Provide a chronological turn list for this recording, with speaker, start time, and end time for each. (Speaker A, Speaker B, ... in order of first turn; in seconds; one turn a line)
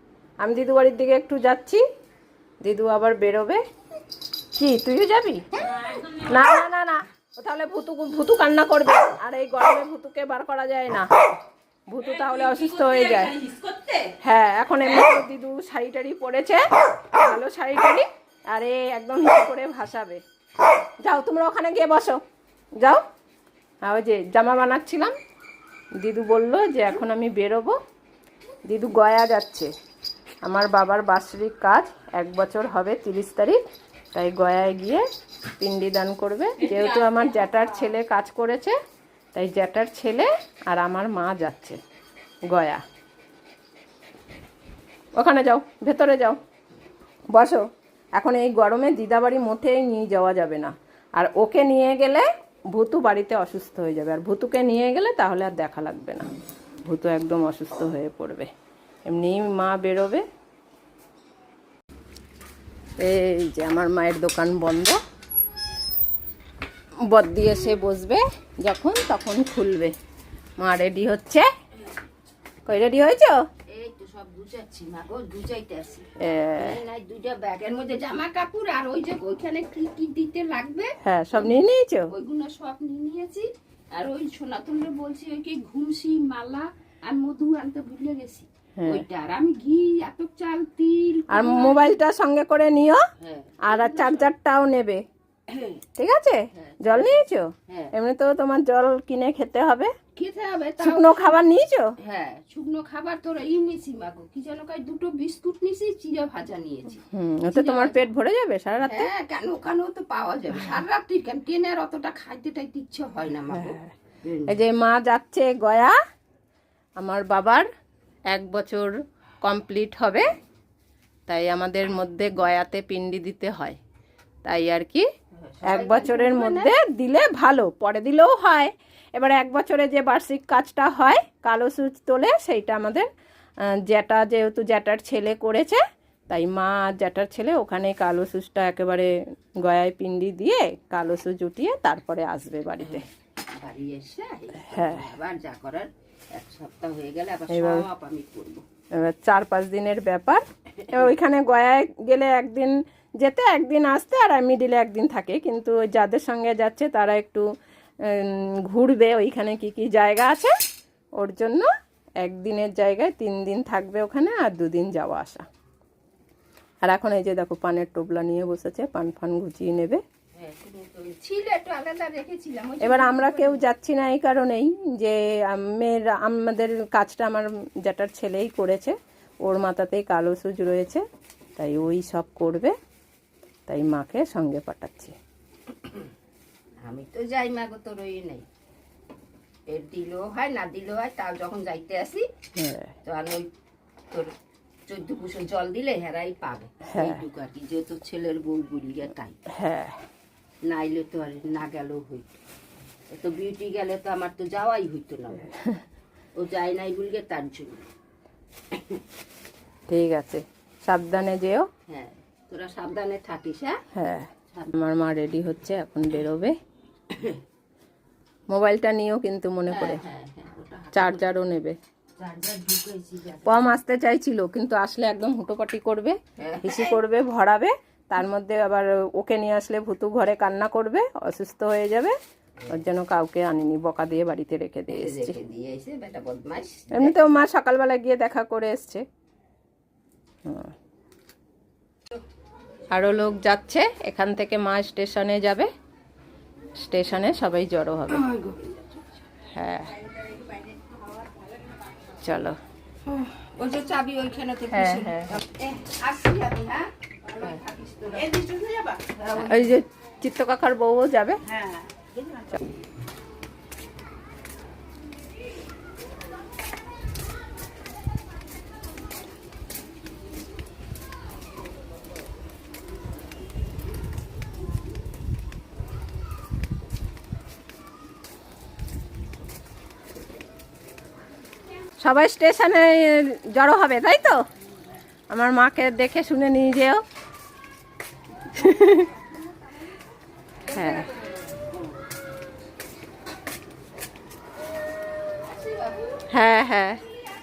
Speaker A: 0.4-1.8
Speaker A: 2.6-3.6
Speaker A: 4.6-11.2
Speaker A: 11.9-13.4
Speaker A: 14.2-20.2
Speaker A: 21.0-22.2
Speaker A: 23.8-25.1
Speaker A: 26.0-27.8
Speaker A: 28.7-29.7
Speaker A: 30.4-33.6
Speaker A: 34.1-35.0
Speaker A: 35.6-38.8
Speaker A: 39.3-41.8
Speaker A: 42.5-42.8
Speaker A: 45.2-46.4
Speaker A: 47.3-47.6
Speaker A: 48.2-56.3
Speaker A: 56.9-58.5
Speaker A: 59.1-60.2
Speaker A: 63.0-65.0
Speaker A: 67.1-69.9
Speaker A: 70.6-71.5
Speaker A: 72.7-73.5
Speaker B: 73.7-91.9
Speaker A: 76.2-76.8
Speaker A: 81.0-82.1
Speaker A: 88.8-89.0
Speaker A: 91.3-93.0
Speaker B: 93.2-94.3
Speaker A: 93.7-95.0
Speaker B: 95.5-95.8
Speaker A: 96.0-99.9
Speaker B: 96.5-97.9
Speaker B: 100.2-101.4
Speaker A: 100.8-102.0
Speaker B: 102.0-108.1
Speaker A: 107.1-109.1
Speaker B: 108.8-114.6
Speaker A: 113.6-113.9
Speaker A: 114.5-116.0
Speaker A: 117.0-117.7
Speaker A: 118.3-120.3
Speaker A: 121.3-123.8
Speaker A: 124.5-125.1
Speaker B: 125.4-126.8
Speaker A: 125.6-133.1
Speaker A: 133.6-143.1
Speaker B: 142.8-148.6
Speaker A: 144.7-145.1
Speaker A: 147.5-147.9
Speaker A: 149.0-157.4
Speaker B: 150.8-151.1
Speaker A: 158.0-160.5
Speaker A: 161.2-161.7
Speaker A: 162.2-165.4
Speaker A: 166.8-170.0
Speaker B: 170.4-173.6
Speaker A: 172.8-181.0
Speaker A: 181.6-182.7
Speaker A: 183.7-185.2
Speaker B: 186.8-188.5
Speaker B: 189.7-192.3
Speaker A: 192.6-192.9
Speaker B: 193.0-193.5
Speaker B: 194.9-199.4
Speaker A: 196.9-197.2
Speaker A: 199.5-200.0
Speaker B: 200.7-202.4
Speaker B: 203.1-205.5
Speaker B: 206.4-207.9
Speaker B: 208.7-209.0
Speaker A: 209.9-211.7
Speaker B: 211.9-213.8
Speaker A: 213.9-216.5
Speaker B: 217.1-217.4
Speaker A: 218.5-220.0
Speaker B: 219.7-221.3
Speaker A: 220.9-221.8
Speaker B: 222.2-223.8
Speaker A: 223.4-232.2
Speaker B: 226.4-227.0
Speaker A: 232.7-235.4
Speaker B: 234.9-237.4
Speaker A: 236.9-239.0
Speaker A: 240.4-240.7
Speaker A: 242.9-245.7
Speaker A: 246.8-248.3
Speaker B: 248.1-249.0
Speaker A: 249.5-250.0
Speaker A: 252.2-252.6
Speaker B: 253.1-259.8
Speaker A: 254.7-255.4
Speaker A: 259.3-261.4
Speaker B: 261.5-262.5
Speaker A: 282.0-284.4
Speaker A: 285.3-287.0
Speaker A: 288.5-289.1
Speaker B: 290.6-291.8
Speaker A: 290.7-291.1
Speaker B: 295.5-296.3
Speaker A: 296.3-297.0